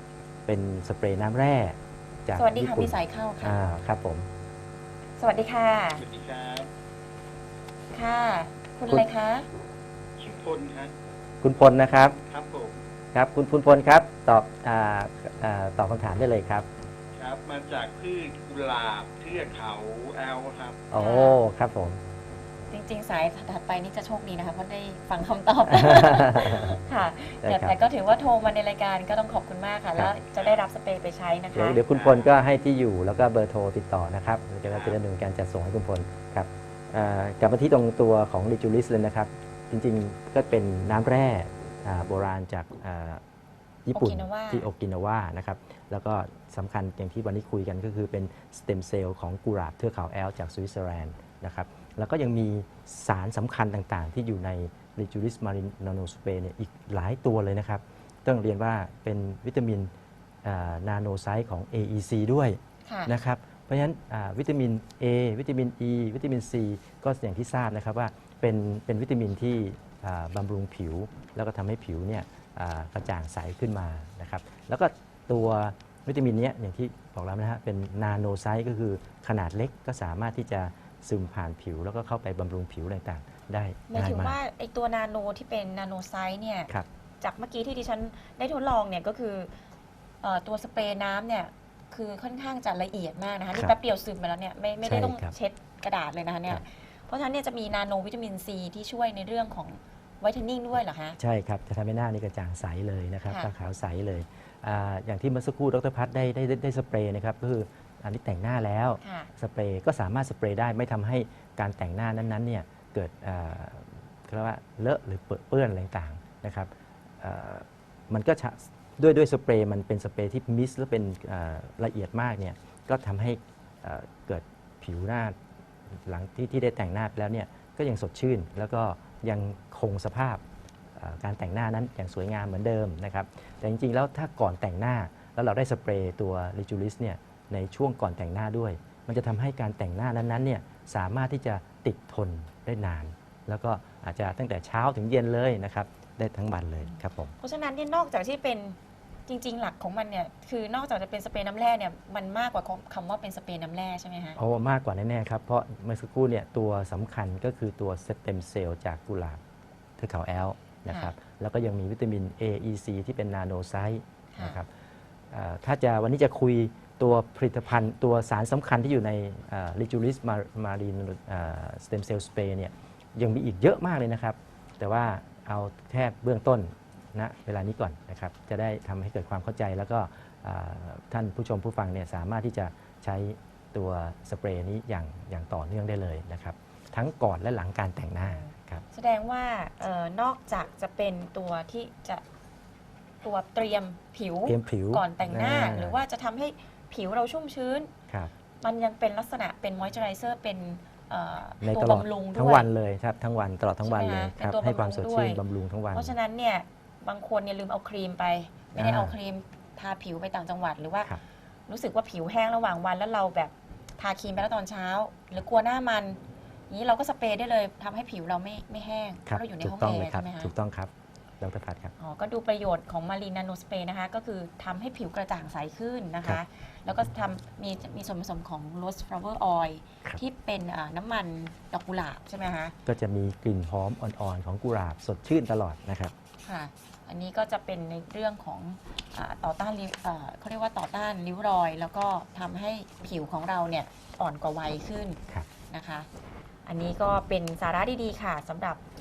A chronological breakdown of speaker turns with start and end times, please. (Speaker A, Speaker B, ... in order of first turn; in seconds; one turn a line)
Speaker A: 0.5-4.3
Speaker B: 2.4-3.6
Speaker B: 5.2-6.0
Speaker C: 6.0-6.7
Speaker B: 7.9-9.5
Speaker C: 10.2-10.9
Speaker A: 11.4-12.2
Speaker C: 12.3-12.8
Speaker A: 13.1-16.7
Speaker C: 17.2-20.9
Speaker A: 20.9-22.0
Speaker B: 21.0-21.4
Speaker B: 22.7-31.8
Speaker A: 25.7-26.8
Speaker A: 27.4-27.8
Speaker C: 30.4-30.6
Speaker A: 31.6-43.2
Speaker C: 31.9-32.3
Speaker C: 34.7-35.0
Speaker A: 43.9-59.9
Speaker B: 43.9-44.7
Speaker A: 60.4-84.4
Speaker B: 62.9-63.1
Speaker B: 83.9-86.7
Speaker B: 87.2-89.5
Speaker B: 90.2-101.2
Speaker A: 94.8-95.3
Speaker A: 101.2-125.4
Speaker B: 109.0-109.3
Speaker A: 125.9-130.4
Speaker A: 130.9-147.3
Speaker B: 146.9-154.4
Speaker A: 154.4-159.4
Speaker A: 160.0-164.7
Speaker B: 160.9-161.2
Speaker B: 164.3-164.6
Speaker A: 165.3-188.8
Speaker B: 188.2-192.2
Speaker B: 193.2-197.9
Speaker A: 194.5-196.0
Speaker B: 198.6-202.7
Speaker A: 201.6-206.2
Speaker B: 203.8-205.4
Speaker B: 205.9-211.1
Speaker A: 208.8-209.2
Speaker B: 211.7-216.2
Speaker B: 216.7-220.5
Speaker A: 219.3-221.9
Speaker B: 222.0-232.8
Speaker A: 232.9-236.1
Speaker B: 236.4-246.1
Speaker B: 246.7-248.8